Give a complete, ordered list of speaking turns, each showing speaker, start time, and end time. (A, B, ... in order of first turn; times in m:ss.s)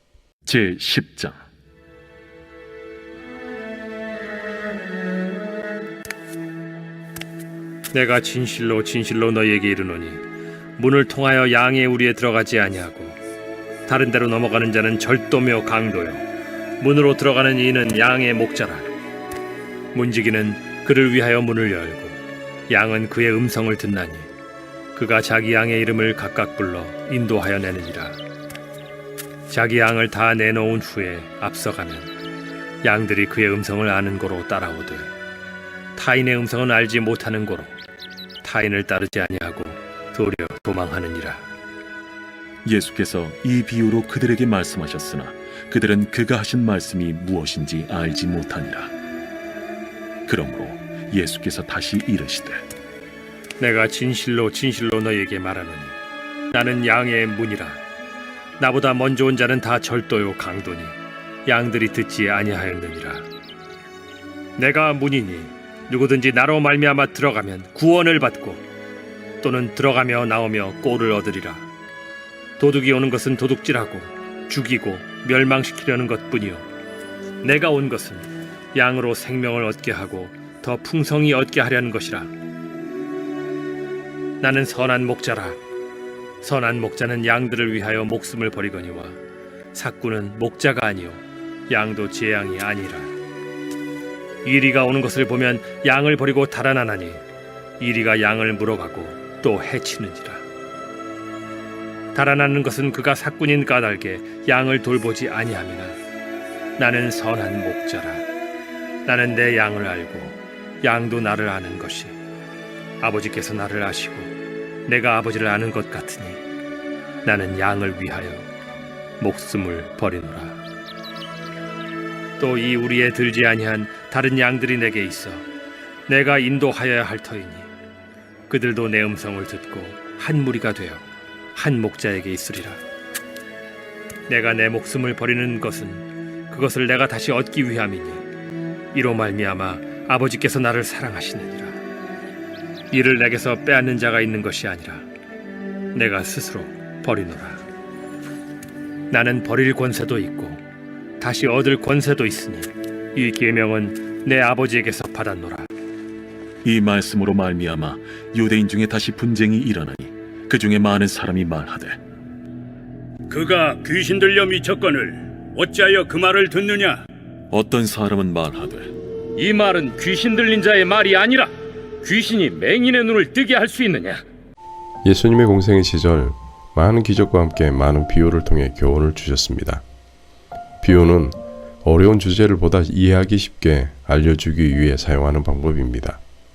0:00.4-0:01.4 A
0:07.9-0:10.2 B
0:10.8-0:13.2 B
0:13.9-0:16.2 B
0:16.8-0:18.9 B
0:19.9-0:22.2 B
0:22.7-0:24.3 B
0:25.0-0:28.2 B
0:29.5-0:32.1 B
0:32.8-0:35.1 B
0:36.0-0:37.7 B
0:38.4-0:41.4 B
0:42.6-0:48.9 A
0:50.3-0:52.6 A
0:53.6-0:55.9 B
0:56.5-0:57.8 B
0:58.6-1:03.3 B
1:04.6-1:08.6 B
1:09.4-1:11.7 B
1:12.6-1:16.6 B
1:17.4-1:22.3 B
1:24.4-1:25.6 B
1:26.4-1:29.2 B
1:29.7-1:33.1 B
1:34.4-1:37.2 B
1:37.8-1:40.4 B
1:42.1-1:46.0 B
1:46.8-1:48.2 B
1:49.1-1:52.2 B
1:53.0-1:54.3 B
1:54.9-1:56.4 B
1:57.2-1:58.5 B
1:59.2-2:00.6 B
2:02.4-2:05.4 B
2:06.1-2:07.7 B
2:08.5-2:12.8 B
2:14.3-2:18.2 B
2:18.9-2:21.8 B
2:22.9-2:25.1 B
2:25.9-2:27.6 B
2:29.1-2:30.6 B
2:31.2-2:35.7 B
2:36.6-2:42.0 A
2:43.3-2:47.1 C
2:47.5-2:48.9 A
2:49.4-2:51.5 D
2:52.0-2:54.2 D
2:55.0-2:59.8 E
3:00.8-3:06.2 E